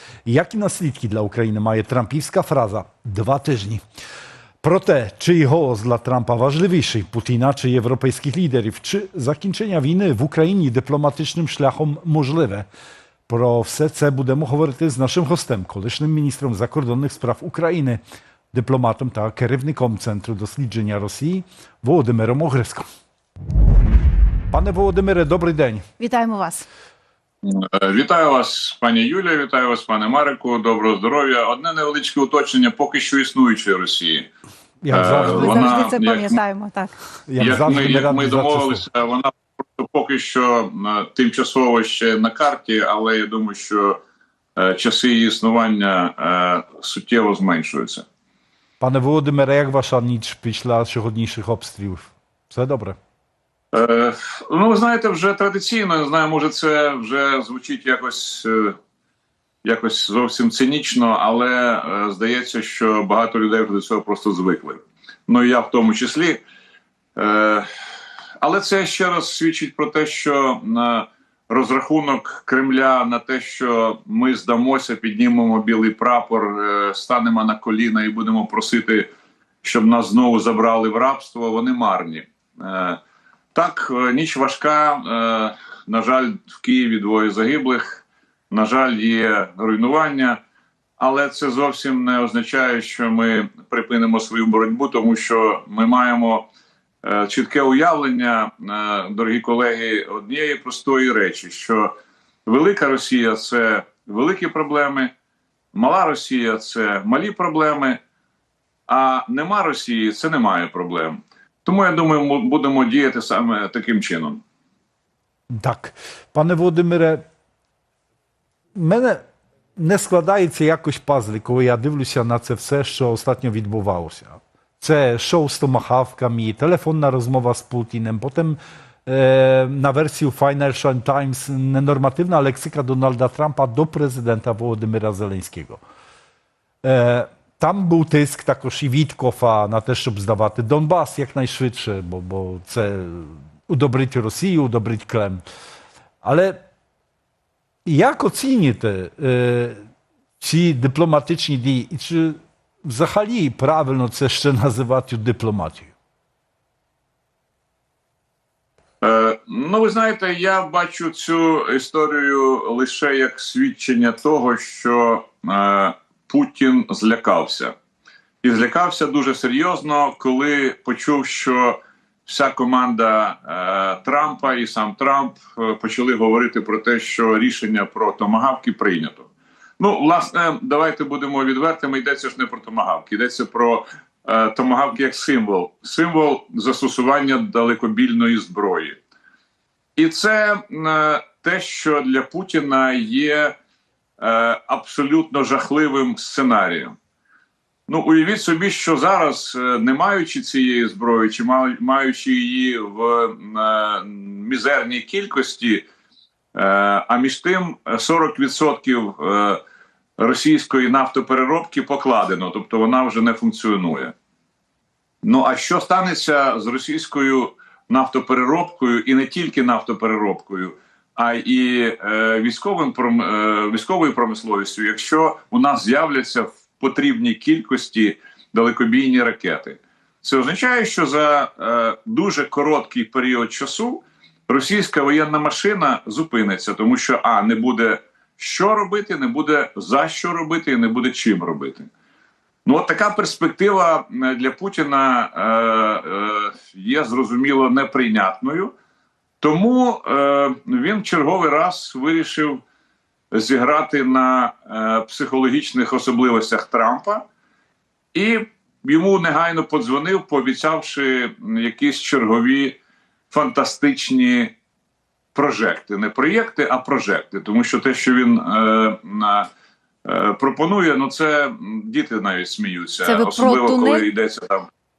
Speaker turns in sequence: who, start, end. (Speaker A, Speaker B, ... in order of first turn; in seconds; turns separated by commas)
Speaker A: 0.2-3.8, Speaker A: 4.6-12.7, Speaker A: 13.3-18.0, Speaker A: 18.5-22.9, Speaker A: 24.5-25.9, Speaker B: 26.0-26.7, Speaker C: 27.4-34.3, Speaker A: 34.8-35.7, Speaker C: 34.9-36.4, Speaker B: 35.2-36.9, Speaker A: 37.3-38.8, Speaker C: 37.4-44.0, Speaker C: 44.6-48.0, Speaker A: 48.8-53.0, Speaker C: 53.7-58.8, Speaker C: 59.6-66.4, Speaker C: 67.2-67.7, Speaker C: 68.4-79.1, Speaker C: 79.6-83.0, Speaker C: 83.5-90.4, Speaker C: 91.0-96.5, Speaker C: 97.0-101.9, Speaker C: 102.5-105.1, Speaker C: 105.7-108.0, Speaker C: 108.9-114.4, Speaker A: 115.5-117.2, Speaker A: 118.8-119.2, Speaker A: 119.8-135.8, Speaker A: 136.8-145.4, Speaker A: 146.2-146.6, Speaker A: 147.8-149.8, Speaker A: 150.4-155.9, Speaker C: 159.0-167.7, Speaker C: 168.4-189.0, Speaker C: 190.0-193.6, Speaker C: 194.2-196.9, Speaker C: 197.9-205.8, Speaker C: 206.5-209.6, Speaker C: 210.2-214.1, Speaker C: 215.2-241.9, Speaker C: 242.7-248.7, Speaker C: 249.4-252.6, Speaker C: 253.3-257.2, Speaker C: 258.1-262.8, Speaker C: 263.3-264.5, Speaker C: 265.3-269.5, Speaker C: 270.1-274.7, Speaker B: 273.1-274.1